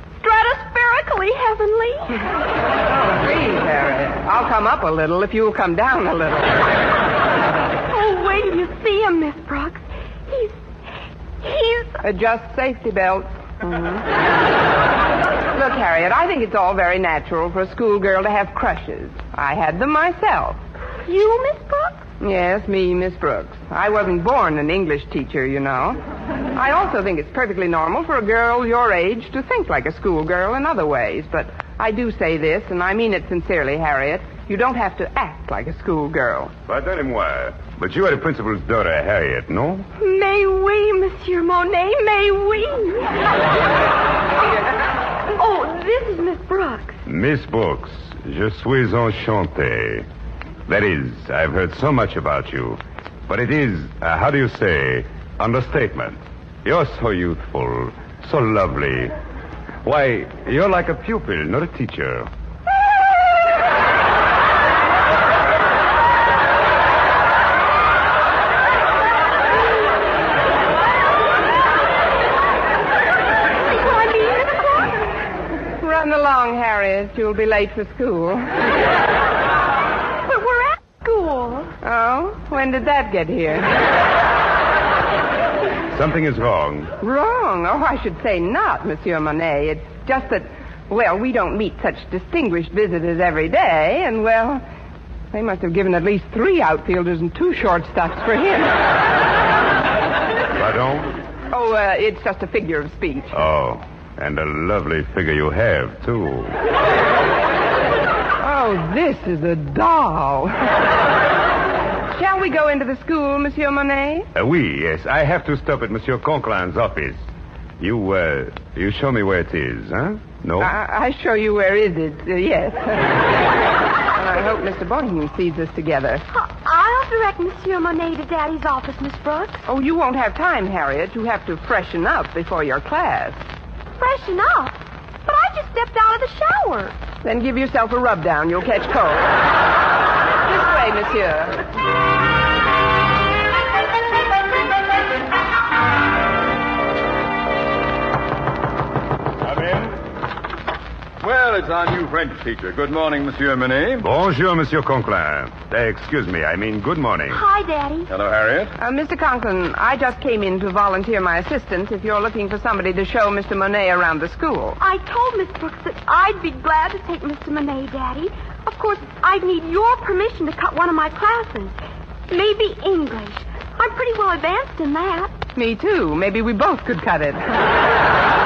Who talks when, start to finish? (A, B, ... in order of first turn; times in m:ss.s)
0:00.2-0:02.3 A
0:02.9-0:06.6 B
0:07.9-0:10.5 A
0:11.4-0:12.0 A
0:12.0-0:14.0 B
0:15.5-0:20.6 B
0:21.0-0:22.0 A
0:22.2-0:26.0 B
0:26.5-0:36.5 B
0:36.7-0:39.9 C
0:40.0-0:43.4 A
0:45.3-0:47.0 A
0:47.0-0:50.1 C
0:50.7-0:59.1 C
0:59.8-1:02.3 C
1:13.6-1:15.2 A
1:15.8-1:18.6 B
1:20.2-1:21.7 A
1:21.8-1:23.8 B
1:25.9-1:26.9 C
1:27.0-1:34.6 B
1:35.3-1:38.8 B
1:40.5-1:41.2 C
1:41.5-1:43.3 B
1:43.3-1:46.6 C
1:48.4-1:50.6 B
1:52.1-1:54.3 B
1:54.3-1:57.2 C
1:57.8-2:00.7 C
2:00.6-2:03.2 B
2:04.1-2:06.2 B
2:06.3-2:09.6 A
2:09.6-2:13.4 B
2:14.0-2:16.9 A
2:17.2-2:19.4 B
2:20.4-2:21.6 B
2:29.4-2:30.0 D
2:31.2-2:34.1 D
2:34.0-2:37.4 C
2:37.3-2:38.1 A
2:38.1-2:38.7 D
2:38.8-2:44.8 B
2:44.8-2:51.7 A
2:52.3-2:55.3 A
2:55.6-2:57.4 B